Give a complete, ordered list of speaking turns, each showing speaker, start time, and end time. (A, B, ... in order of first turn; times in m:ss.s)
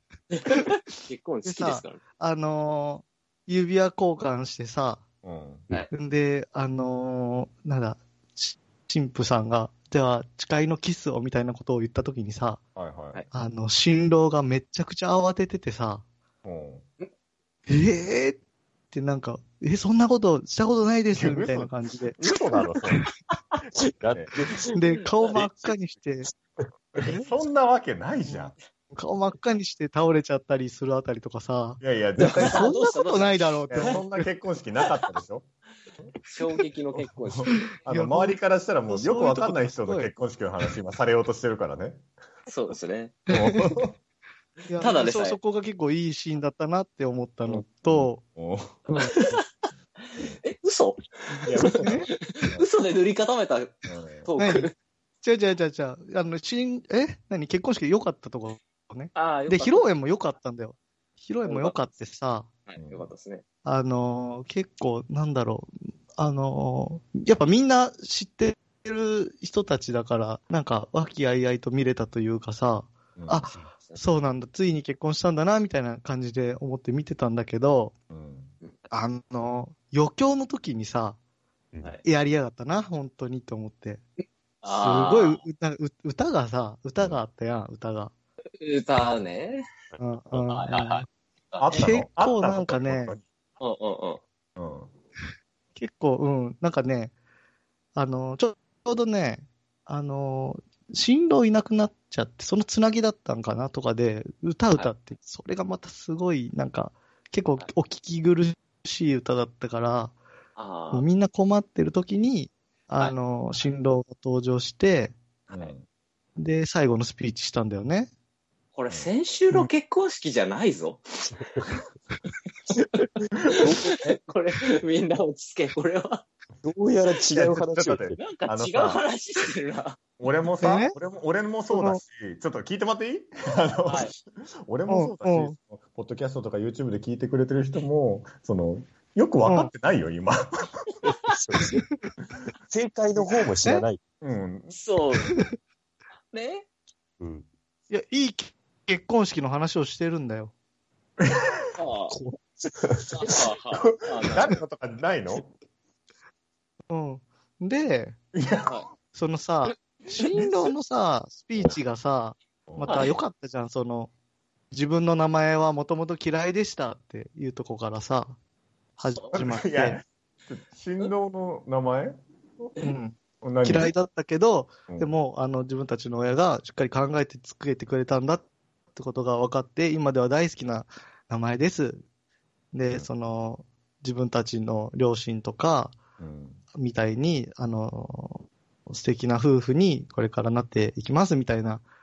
0:00.3-0:02.0 A
0:01.4-0:05.0 B
0:05.2-0:05.7 C
0:05.9-0:12.6 B
0:12.8-0:13.2 C
0:13.3-0:16.0 B
0:16.4-0:16.8 C
0:17.7-0:18.4 B
0:18.9-0:22.2 B
0:21.1-0:23.1 C
0:24.0-0:24.7 D
0:24.1-0:24.3 C
0:24.7-0:26.3 B
0:24.8-0:25.3 A
0:27.0-0:28.5 C
0:28.9-0:34.0 B
0:31.8-0:32.6 C
0:32.2-0:34.0 A
0:33.7-0:35.4 C
0:36.2-0:37.7 A
0:37.2-0:42.1 C
0:37.8-0:40.1 B
0:42.5-0:43.2 A
0:43.3-0:43.9 C
0:43.3-0:43.8 B
0:44.7-0:48.2 B
0:44.8-0:45.4 A
0:47.9-0:48.8 C
0:48.9-0:49.4 A
0:50.1-0:54.7 A
0:51.4-0:52.6 C
0:51.8-0:52.1 B
0:53.9-0:54.3 C
0:54.4-1:02.5 B
0:59.1-0:59.8 A
1:01.4-1:01.8 A
1:02.7-1:03.4 A
1:02.8-1:03.1 C
1:03.6-1:17.9 B
1:13.2-1:13.4 C
1:18.1-1:18.5 C
1:18.9-1:21.2 B
1:22.0-1:24.0 B
1:24.6-1:25.4 A
1:24.7-1:28.1 B
1:28.6-1:29.6 A
1:30.0-1:31.0 B
1:30.4-1:31.9 A
1:31.6-1:33.2 C
1:31.7-1:33.1 B
1:33.6-1:34.2 A
1:34.6-1:34.9 C
1:35.8-1:37.1 B
1:37.9-1:50.2 B
1:50.6-1:51.0 A
1:50.9-1:55.2 B
1:55.5-1:55.8 C
1:56.4-1:58.1 B
1:58.7-2:01.4 A
1:58.9-1:59.6 C
2:03.0-2:06.2 A
2:03.6-2:03.9 D
2:06.6-2:08.2 D
2:07.3-2:09.0 C
2:08.2-2:10.0 A
2:10.2-2:20.8 C
2:10.6-2:10.9 B
2:11.7-2:12.0 B
2:13.8-2:14.1 A
2:14.9-2:15.5 B
2:19.4-2:19.7 B
2:21.4-2:21.8 D
2:22.7-2:24.0 D
2:24.2-2:24.7 C
2:24.7-2:25.3 A
2:26.3-2:26.6 A
2:27.2-2:27.4 D
2:27.9-2:30.5 B
2:31.2-2:31.5 C
2:31.8-2:32.2 A
2:32.6-2:33.4 D
2:33.1-2:34.5 A
2:33.7-2:35.4 C
2:36.9-2:38.2 B
2:38.3-2:38.8 C
2:39.1-2:44.1 B
2:42.7-2:43.0 C
2:42.8-2:43.1 A
2:44.7-2:48.4 B
2:49.0-2:50.0 B
2:49.3-2:52.2 C
2:52.8-3:02.0 B
2:53.4-2:53.9 C
3:02.7-3:06.0 B
3:06.2-3:06.6 C
3:06.7-3:11.8 B